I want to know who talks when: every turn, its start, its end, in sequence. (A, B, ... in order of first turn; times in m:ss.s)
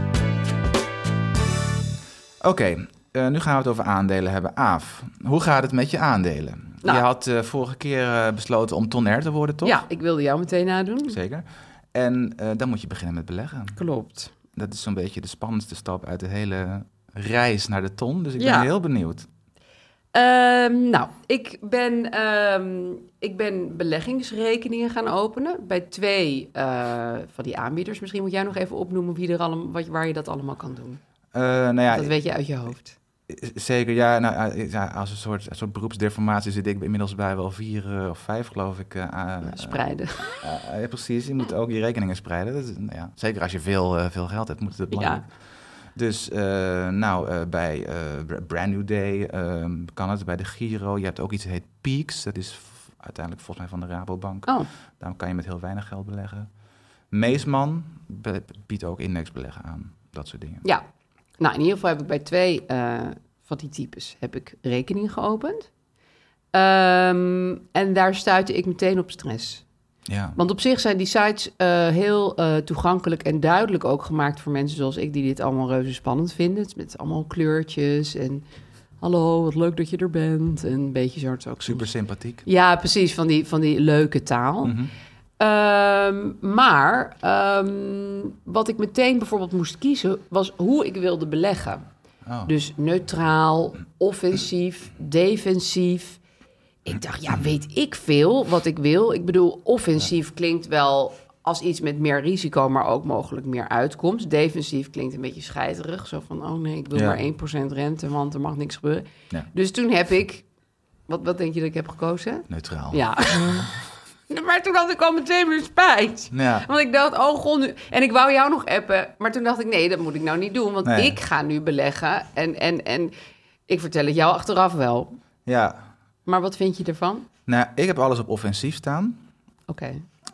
0:02.4-0:09.8 A
0:09.6-0:11.2 B
0:11.1-0:13.8 A
0:13.8-0:14.3 B
0:14.5-0:19.3 A
0:18.4-0:18.7 B
0:20.1-0:31.0 B
0:31.3-0:32.2 A
0:31.9-0:33.0 B
0:33.3-0:45.3 A
0:39.4-0:40.4 B
0:44.9-0:45.2 B
0:45.9-0:56.5 A
0:57.1-1:00.6 A
1:01.4-1:05.7 B
1:06.5-1:09.6 B
1:10.1-1:10.4 A
1:10.4-1:18.4 B
1:19.0-1:21.9 B
1:21.6-1:22.4 A
1:22.4-1:24.7 B
1:24.6-1:24.9 A
1:25.4-1:31.8 B
1:32.2-1:32.5 A
1:32.4-1:36.2 B
1:36.8-1:50.4 B
1:46.9-1:47.2 A
1:51.1-1:53.7 B
1:52.5-1:53.7 A
1:54.3-2:03.1 B
1:56.3-1:56.7 A
2:00.8-2:01.2 A
2:03.7-2:05.2 B
2:05.4-2:05.8 A
2:06.2-2:07.3 B
2:07.5-2:09.2 A
2:09.7-2:10.0 B